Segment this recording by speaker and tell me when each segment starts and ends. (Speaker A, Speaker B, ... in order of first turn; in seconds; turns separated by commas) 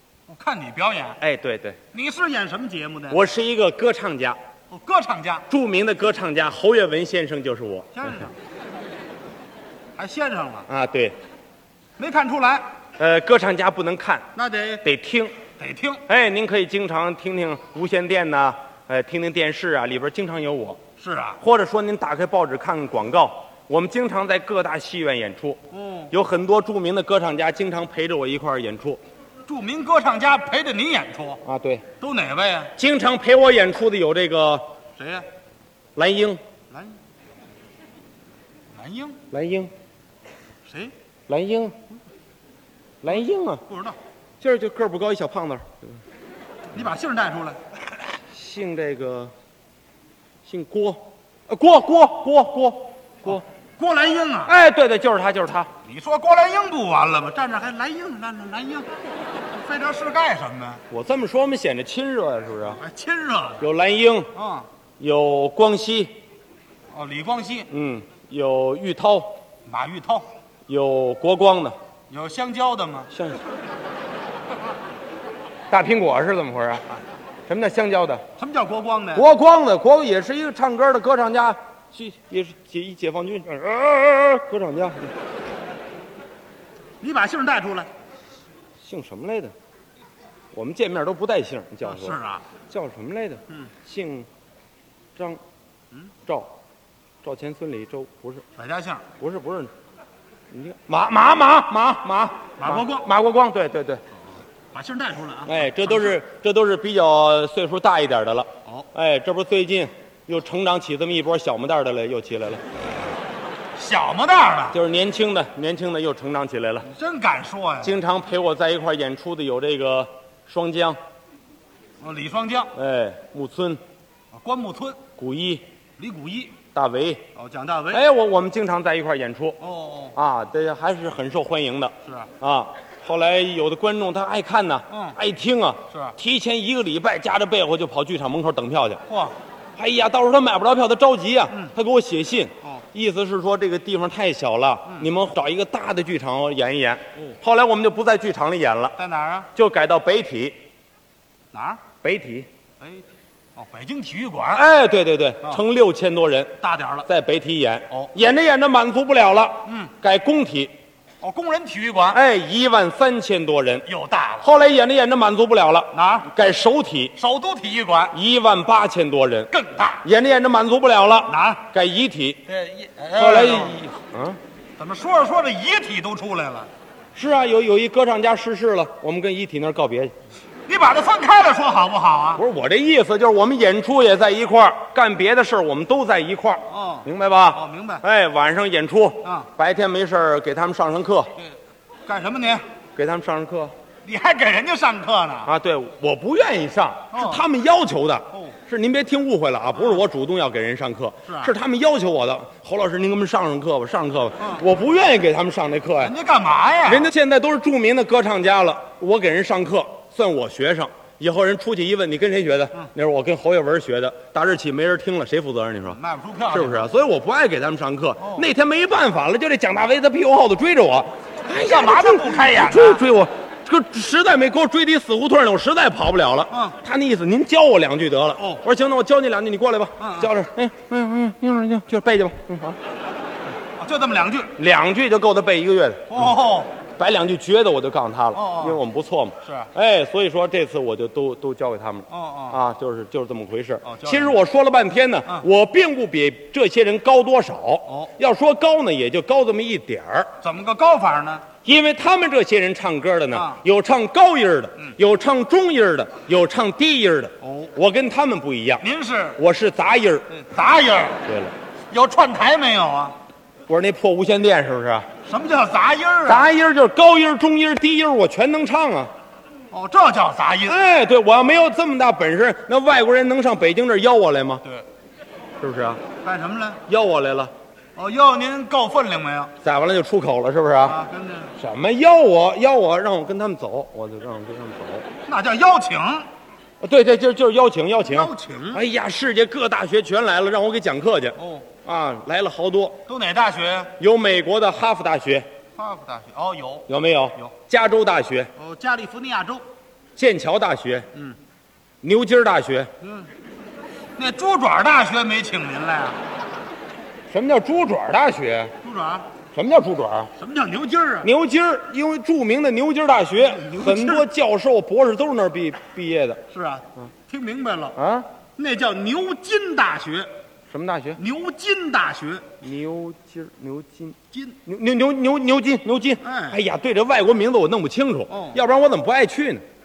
Speaker A: 0.3-1.2, Speaker B: 1.2-1.8, Speaker A: 1.9-3.2, Speaker B: 3.1-4.4, Speaker A: 4.7-5.5, Speaker B: 5.5-8.2, Speaker A: 7.9-8.3, Speaker A: 9.9-10.7, Speaker B: 10.7-11.2, Speaker A: 12.0-12.7, Speaker B: 13.0-14.3, Speaker A: 14.3-14.8, Speaker B: 14.8-15.3, Speaker A: 15.6-16.0, Speaker B: 16.1-20.8, Speaker A: 21.0-21.4, Speaker B: 21.4-25.6, Speaker A: 25.7-26.1, Speaker B: 26.1-29.0, Speaker A: 29.4-31.4, Speaker B: 31.4-31.9, Speaker A: 32.0-32.7, Speaker B: 32.8-34.6, Speaker A: 35.0-35.3, Speaker B: 36.0-36.4, Speaker A: 36.7-37.0, Speaker A: 38.7-39.2, Speaker B: 39.3-39.7, Speaker A: 40.6-40.9, Speaker B: 41.3-41.8, Speaker B: 43.0-43.6, Speaker A: 43.7-44.0, Speaker B: 44.4-46.0, Speaker A: 46.7-47.6, Speaker B: 48.3-49.3, Speaker B: 50.5-53.4, Speaker A: 53.2-54.5, Speaker B: 54.5-55.7, Speaker A: 55.8-60.8, Speaker B: 60.9-62.8, Speaker A: 62.6-63.6, Speaker B: 63.6-64.3, Speaker A: 64.3-64.7, Speaker B: 65.0-66.1, Speaker A: 66.9-67.7, Speaker B: 67.7-69.4, Speaker A: 69.7-70.3, Speaker B: 70.7-71.8, Speaker A: 72.1-73.1, Speaker B: 73.1-73.4, Speaker B: 75.7-76.9, Speaker B: 77.5-78.2, Speaker A: 78.4-79.2, Speaker B: 79.1-85.1, Speaker A: 87.0-87.9, Speaker B: 88.8-89.5, Speaker B: 90.5-92.2, Speaker A: 91.8-92.4, Speaker B: 92.7-94.3, Speaker B: 97.2-98.4, Speaker A: 98.5-99.0, Speaker B: 99.2-99.7, Speaker B: 100.5-104.0, Speaker A: 102.6-103.1, Speaker A: 104.7-106.2, Speaker B: 105.5-112.6, Speaker A: 113.7-114.8, Speaker B: 114.7-116.9, Speaker A: 116.8-118.0, Speaker B: 117.8-121.0, Speaker A: 122.0-122.7, Speaker B: 122.7-123.8, Speaker A: 124.3-125.0, Speaker B: 125.2-125.6, Speaker A: 126.0-126.6, Speaker B: 126.7-127.2, Speaker A: 127.3-128.0, Speaker B: 127.9-129.6, Speaker A: 129.6-130.2, Speaker B: 130.1-139.0, Speaker A: 134.9-135.2, Speaker A: 139.1-139.3, Speaker B: 139.8-148.9, Speaker A: 149.0-149.5, Speaker B: 149.5-150.6, Speaker A: 151.5-151.8, Speaker B: 152.0-152.5, Speaker A: 152.8-154.6, Speaker B: 154.5-156.5, Speaker A: 156.6-157.1, Speaker B: 157.1-160.7, Speaker A: 159.7-159.9, Speaker A: 161.2-162.2, Speaker B: 162.1-163.8, Speaker A: 163.8-164.5, Speaker B: 164.4-167.1, Speaker A: 165.9-166.3, Speaker A: 167.2-168.1, Speaker B: 168.1-169.5, Speaker A: 169.5-170.0, Speaker B: 170.0-172.4, Speaker A: 171.3-171.6, Speaker A: 172.5-173.8, Speaker B: 173.1-174.4, Speaker A: 174.8-176.7, Speaker B: 177.1-180.1, Speaker A: 180.7-182.4, Speaker B: 182.3-191.3, Speaker A: 186.7-188.0, Speaker A: 189.2-189.5, Speaker A: 192.1-192.6, Speaker B: 192.9-193.7, Speaker A: 194.0-195.5, Speaker B: 195.4-206.1, Speaker A: 197.1-197.4, Speaker A: 199.7-200.0, Speaker A: 201.3-201.5, Speaker A: 204.4-204.7, Speaker A: 206.0-207.1, Speaker B: 206.8-232.8, Speaker A: 215.9-216.9, Speaker A: 218.2-218.4, Speaker A: 221.5-223.1, Speaker A: 226.5-226.8, Speaker A: 230.0-230.3, Speaker A: 233.8-234.5, Speaker B: 234.6-236.2, Speaker A: 236.1-236.7, Speaker B: 236.9-250.3, Speaker A: 238.3-238.8, Speaker A: 239.4-239.7, Speaker A: 242.1-242.6, Speaker A: 243.8-244.4, Speaker A: 250.4-251.5, Speaker B: 251.6-258.8, Speaker A: 253.3-253.6, Speaker A: 257.4-257.7, Speaker A: 258.8-259.4, Speaker B: 259.4-260.3, Speaker A: 260.3-261.2, Speaker B: 261.2-261.5, Speaker A: 261.9-263.2, Speaker B: 263.7-265.1, Speaker A: 265.2-266.5, Speaker B: 266.2-269.1, Speaker A: 269.7-270.8, Speaker B: 270.6-274.6, Speaker B: 275.6-276.0, Speaker A: 276.2-276.8, Speaker B: 276.9-277.5, Speaker A: 277.9-279.5, Speaker B: 279.6-281.0, Speaker A: 280.8-281.5, Speaker B: 281.6-285.1, Speaker A: 285.2-286.3, Speaker B: 286.8-293.0, Speaker A: 288.0-288.8, Speaker A: 291.4-291.6, Speaker A: 293.1-293.9, Speaker B: 294.0-295.4, Speaker A: 295.8-297.5, Speaker B: 296.9-298.5, Speaker A: 298.6-299.6, Speaker B: 300.1-301.1, Speaker B: 302.0-302.9, Speaker A: 303.0-303.3, Speaker A: 304.1-306.2, Speaker B: 307.3-308.7, Speaker A: 308.8-309.3, Speaker B: 309.5-310.3, Speaker A: 310.4-311.3, Speaker B: 311.2-316.4, Speaker A: 313.5-314.2, Speaker A: 316.5-318.0, Speaker B: 317.9-318.3, Speaker A: 318.6-320.3, Speaker B: 320.7-321.2, Speaker A: 321.1-322.4, Speaker B: 322.6-329.6, Speaker A: 324.3-324.6, Speaker A: 326.2-326.6, Speaker A: 328.3-328.6